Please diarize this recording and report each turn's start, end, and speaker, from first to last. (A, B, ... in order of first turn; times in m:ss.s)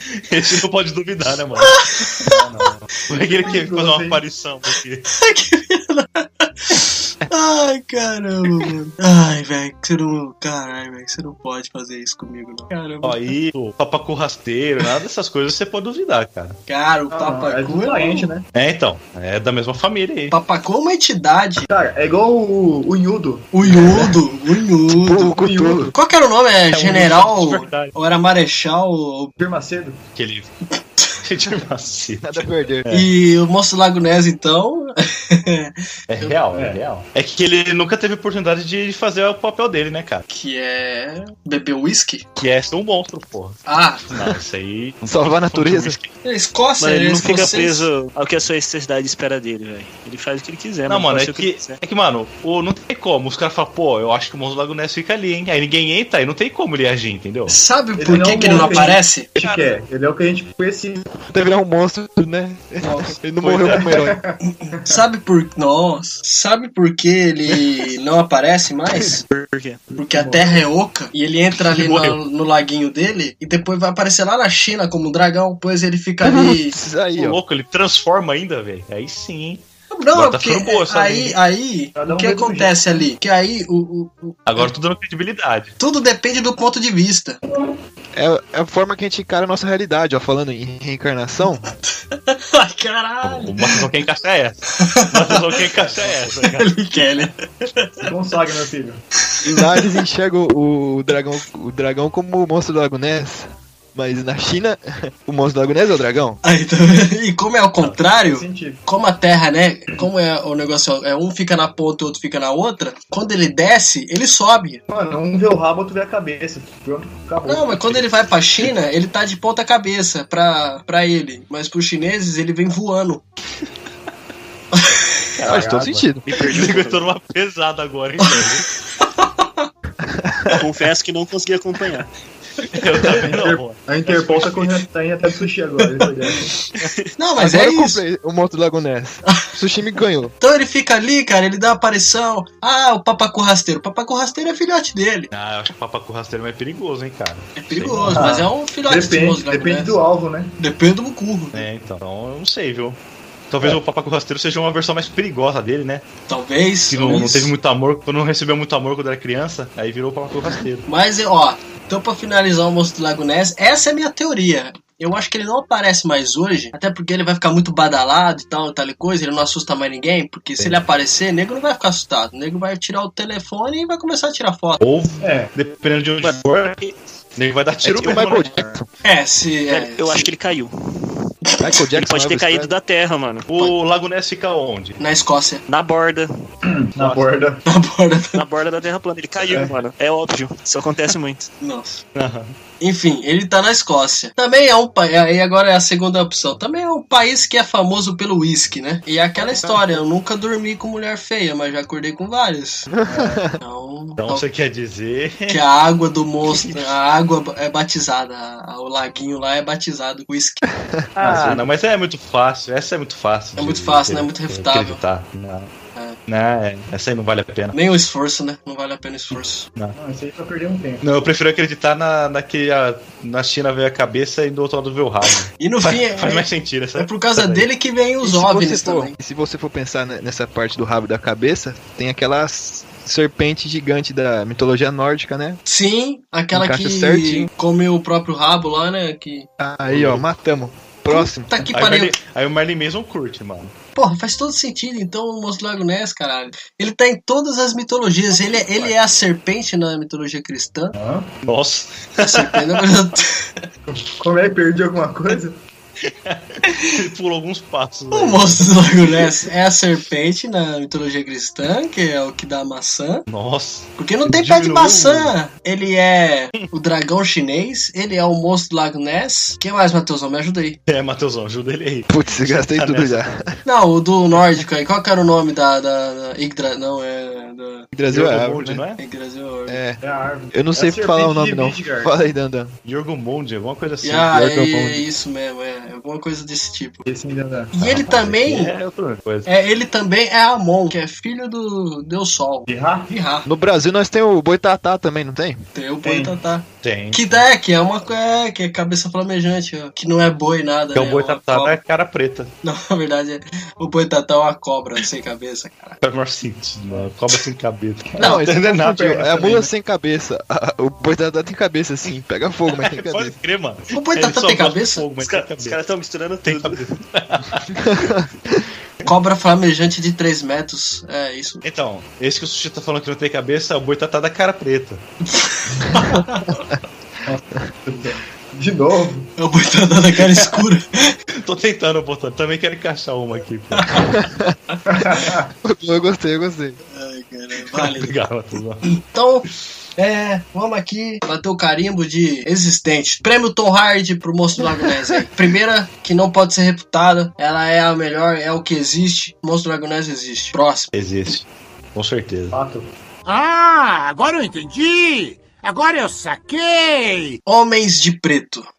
0:00.3-0:01.9 A
0:01.6-0:02.4 B
0:02.2-0:04.2 C
0:03.1-0:05.1 A
0:05.1-0:13.4 B
0:13.0-0:16.6 A
0:16.7-0:18.3 B
0:17.1-0:18.4 C
0:18.5-0:20.3 A
0:20.3-0:21.7 B
0:21.7-0:23.5 C
0:23.5-0:25.3 B
0:24.9-0:25.9 D
0:25.3-0:25.9 C
0:25.9-0:29.3 B
0:26.7-0:27.9 A
0:29.4-0:30.0 C
0:30.2-0:30.5 A
0:31.2-0:33.1 A
0:32.2-0:32.9 D
0:32.9-0:36.3 B
0:36.1-0:40.2 A
0:36.5-0:36.8 C
0:40.3-0:42.2 B
0:42.4-0:46.1 A
0:43.7-0:44.0 B
0:45.0-0:46.0 D
0:46.2-0:47.9 B
0:46.8-0:51.8 E
0:50.9-0:57.6 A
0:57.5-0:59.3 B
0:58.0-1:01.1 C
0:58.4-0:59.8 A
1:01.3-1:04.2 D
1:02.8-1:03.2 B
1:03.4-1:03.9 A
1:03.7-1:05.0 C
1:04.6-1:09.2 B
1:09.0-1:09.8 E
1:09.9-1:10.6 C
1:10.0-1:16.8 B
1:11.6-1:12.2 A
1:16.2-1:17.4 D
1:17.1-1:19.6 A
1:19.9-1:24.7 B
1:20.1-1:21.4 A
1:22.0-1:22.8 C
1:24.5-1:25.7 A
1:25.8-1:27.4 B
1:28.2-1:31.7 D
1:32.1-1:33.9 B
1:33.2-1:36.7 A
1:34.7-1:38.1 B
1:38.0-1:39.0 C
1:39.4-1:46.4 D
1:39.5-1:39.8 B
1:46.4-1:54.8 B
1:48.2-1:48.8 C
1:54.9-1:58.0 C
1:57.4-2:03.2 B
2:04.7-2:05.0 B
2:05.3-2:08.6 A
2:05.4-2:06.0 C
2:05.4-2:06.3 D
2:06.2-2:07.1 E
2:08.2-2:09.7 B
2:10.0-2:10.6 D
2:10.5-2:12.1 E
2:12.7-2:14.8 A
2:13.0-2:16.6 C
2:16.8-2:17.1 E
2:17.2-2:18.0 B
2:17.4-2:20.3 D
2:20.4-2:25.3 B
2:25.3-2:28.2 A
2:27.6-2:29.9 B
2:28.0-2:30.5 C
2:30.6-2:31.6 B
2:31.5-2:33.0 A
2:33.5-2:36.0 A
2:36.3-2:37.5 B
2:36.9-2:40.8 A
2:40.9-2:54.8 B
2:54.8-2:56.8 A
2:55.2-2:55.5 C
2:56.2-2:56.9 E
2:57.4-2:58.7 A
2:57.8-2:58.9 D
2:59.0-3:00.3 B
2:59.7-3:01.3 E
3:01.6-3:02.7 D
3:01.9-3:03.7 E
3:03.5-3:05.0 A
3:05.0-3:05.6 B
3:05.7-3:06.3 E
3:06.7-3:07.6 C
3:07.0-3:07.4 A
3:07.6-3:08.4 B
3:08.3-3:11.5 E
3:09.4-3:09.7 C
3:11.6-3:12.0 B
3:12.1-3:12.5 A
3:12.8-3:22.9 B
3:19.5-3:19.9 C
3:22.9-3:23.6 D
3:23.0-3:23.4 C
3:23.6-3:24.4 B
3:24.2-3:25.6 A
3:25.5-3:30.6 B
3:26.4-3:26.8 A
3:30.7-3:31.5 D
3:31.2-3:35.7 A
3:31.2-3:31.6 C
3:33.6-3:35.0 B
3:36.3-3:37.8 A
3:37.7-3:39.7 B
3:39.9-3:41.0 C
3:41.0-3:47.7 A
3:45.6-3:49.1 B
3:48.2-3:55.6 D
3:55.6-3:59.5 B
3:56.5-3:57.5 D
3:59.6-4:01.5 D
3:59.9-4:00.2 A
4:01.1-4:02.1 B
4:01.7-4:03.7 A
4:04.0-4:10.9 B
4:08.4-4:08.9 A
4:10.9-4:11.4 C
4:11.4-4:12.8 A
4:12.2-4:13.6 B
4:13.9-4:15.6 C
4:16.0-4:19.4 A
4:16.6-4:16.9 B
4:18.1-4:23.2 B
4:23.3-4:25.3 A
4:24.0-4:30.8 B
4:30.9-4:33.4 A
4:32.1-4:33.6 D
4:33.6-4:37.9 B
4:37.9-4:38.8 D
4:38.1-4:39.0 A
4:39.0-4:39.8 B
4:39.7-4:40.0 D
4:40.0-4:42.1 C
4:40.5-4:42.7 D
4:42.8-4:44.3 A
4:44.0-4:47.0 B
4:44.2-4:45.0 D
4:47.0-4:47.7 C
4:47.7-4:48.7 B
4:47.8-4:49.5 A
4:49.4-4:53.4 B
4:52.7-4:53.1 C
4:53.4-4:55.6 D
4:55.7-5:01.8 B
4:56.0-4:56.4 C
4:56.8-4:57.4 A
5:00.9-5:02.5 A
5:02.6-5:06.0 B
5:06.0-5:09.1 A
5:08.1-5:09.7 C
5:08.2-5:13.4 D
5:08.2-5:08.4 B
5:12.7-5:15.8 A
5:13.9-5:15.0 B
5:15.2-5:16.9 E
5:16.4-5:18.2 A
5:17.7-5:18.3 D
5:19.0-5:21.6 B
5:21.6-5:25.0 A
5:25.3-5:26.6 B
5:27.2-5:29.3 C
5:29.4-5:31.1 B
5:30.3-5:30.6 A
5:31.4-5:34.0 A
5:33.8-5:34.0 B
5:34.0-5:34.6 D
5:34.9-5:35.5 C
5:35.6-5:36.8 D
5:36.9-5:38.1 B
5:37.7-5:38.8 A
5:38.9-5:39.4 B
5:40.0-5:50.9 B
5:50.9-5:52.6 A
5:52.5-5:52.9 C
5:53.2-5:57.4 F
5:57.4-5:58.7 B